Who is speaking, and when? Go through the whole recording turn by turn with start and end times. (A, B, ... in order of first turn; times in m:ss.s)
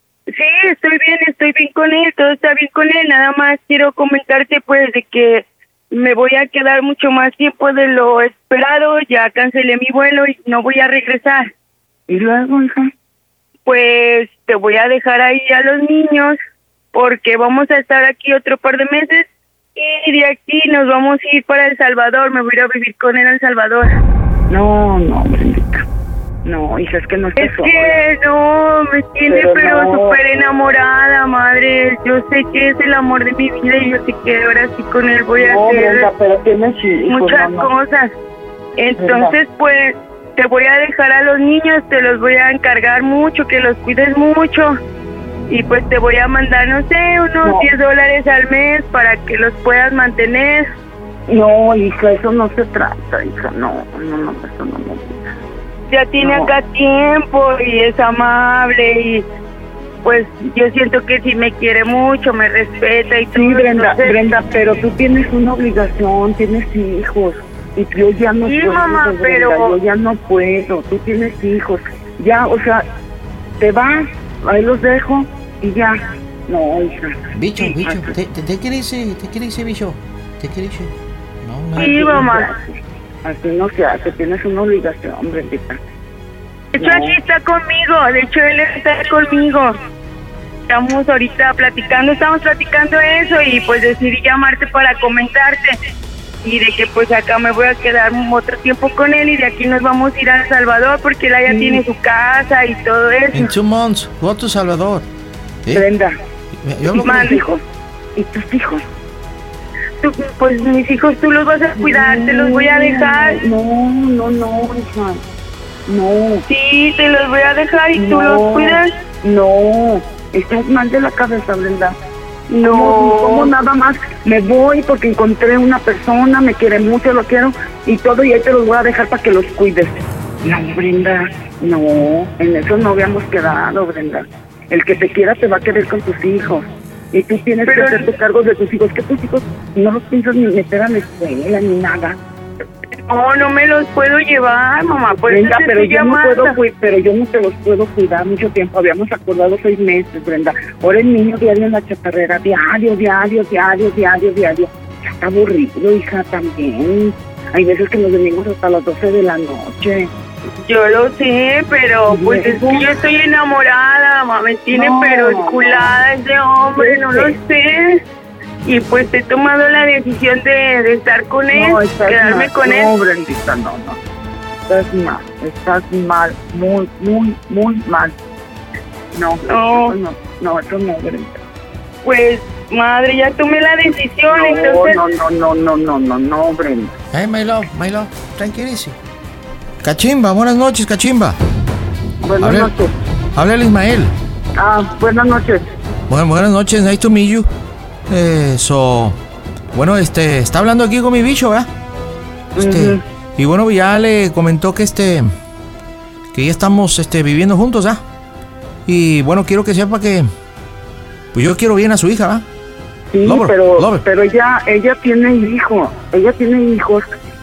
0:00.3-0:11.5 A
0:12.1-0:12.9 B
0:13.6-0:16.4 A
0:16.9-0:23.9 A
0:24.5-0:25.8 B
0:26.4-0:28.0 B
0:27.4-0:36.1 A
0:29.3-0:30.2 B
0:35.4-0:37.7 B
0:37.1-0:38.1 A
0:38.8-0:44.8 A
0:39.0-0:39.3 B
0:45.5-0:50.7 A
0:47.4-0:47.7 B
0:51.3-0:55.2 B
0:55.9-0:59.2 A
0:56.2-0:56.5 B
1:00.0-1:04.1 A
1:03.3-1:12.8 B
1:08.4-1:09.8 A
1:13.6-1:18.1 B
1:17.3-1:22.1 C
1:21.8-1:22.5 A
1:21.8-1:25.8 B
1:26.7-1:29.8 A
1:26.8-1:27.1 B
1:30.7-1:35.8 A
1:36.4-1:43.5 A
1:41.5-1:41.8 B
1:43.3-1:45.0 C
1:45.7-1:46.2 B
1:46.6-1:47.2 C
1:46.9-1:47.5 B
1:47.0-1:47.6 A
1:48.2-1:48.8 B
1:50.0-1:53.4 A
1:51.8-1:55.2 B
1:55.9-1:56.4 B
1:56.5-1:58.9 A
1:57.9-2:02.0 B
2:02.5-2:03.5 A
2:02.6-2:22.2 B
2:17.6-2:18.1 A
2:23.0-2:26.6 A
2:25.2-2:40.1 B
2:40.6-2:48.0 A
2:42.1-2:42.9 B
2:44.7-2:45.9 B
2:46.8-2:47.3 B
2:48.6-2:52.9 A
2:51.5-2:54.0 B
2:54.7-2:58.2 B
2:59.1-3:01.4 B
2:59.5-2:59.9 A
3:02.0-3:05.0 A
3:04.3-3:06.9 B
3:07.1-3:08.9 C
3:09.8-3:11.4 C
3:12.2-3:12.9 B
3:12.4-3:12.7 C
3:13.4-3:14.1 C
3:14.6-3:15.6 B
3:16.1-3:17.5 C
3:18.1-3:19.2 C
3:19.7-3:21.7 C
3:22.6-3:23.0 B
3:22.6-3:25.3 C
3:26.3-3:28.0 C
3:28.8-3:30.3 C
3:31.3-3:32.4 C
3:33.1-3:37.1 B
3:33.2-3:34.0 C